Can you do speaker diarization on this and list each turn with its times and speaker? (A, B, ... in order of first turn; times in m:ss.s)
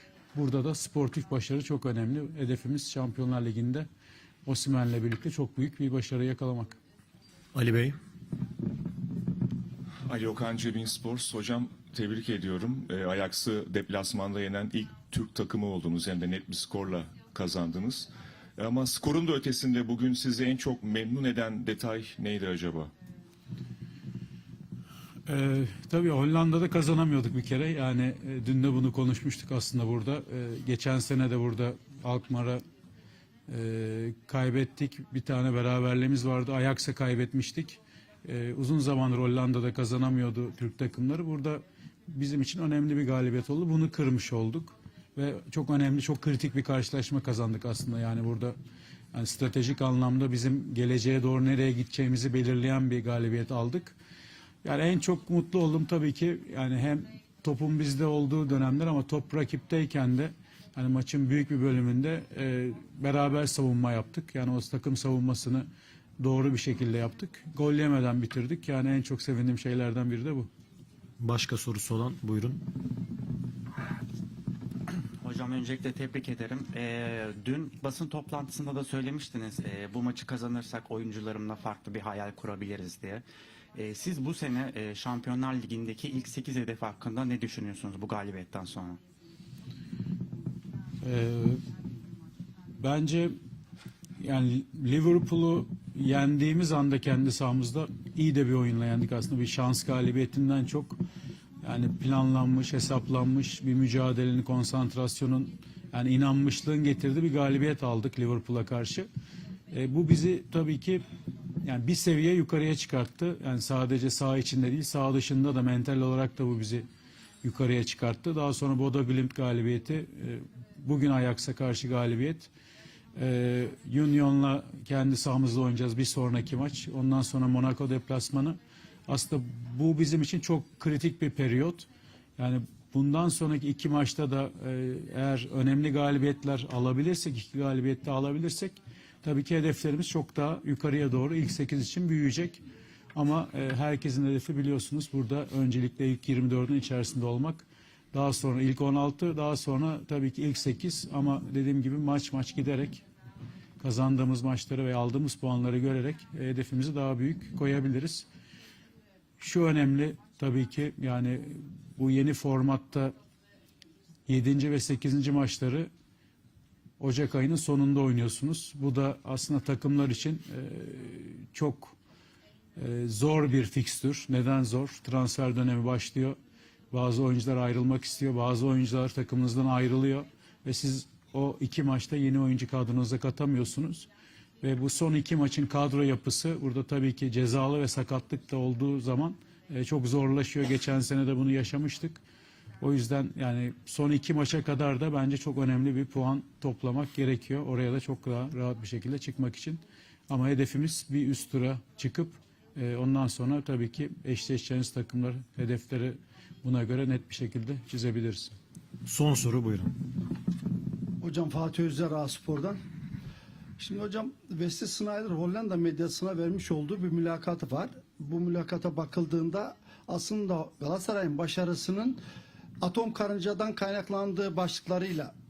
0:00.3-0:03.9 A
0:04.5-0:06.8 A
0:07.6-0:08.0 B
0:10.1-0:22.9 C
0:25.3-0:32.6 A
0:33.5-0:48.6 A
0:49.1-0:54.0 A
0:54.6-1:05.7 A
1:06.2-1:10.5 A
1:11.2-1:12.6 B
1:15.2-1:29.0 D
1:31.0-1:31.6 A
1:32.8-1:33.4 A
1:34.2-1:41.0 A
1:41.6-1:49.1 A
1:49.7-1:51.0 A
1:51.6-1:56.9 A
1:57.4-2:02.5 A
2:03.2-2:11.9 A
2:12.4-2:22.6 A
2:23.2-2:33.0 A
2:33.8-2:38.3 A
2:39.4-2:43.1 A
2:44.3-2:45.9 A
2:47.0-2:52.0 A
2:52.8-2:56.4 A
2:56.9-3:04.1 A
3:04.6-3:12.2 A
3:12.8-3:28.6 A
3:29.1-3:29.9 B
3:31.2-3:32.8 E
3:33.8-3:42.2 E
3:42.8-3:45.3 E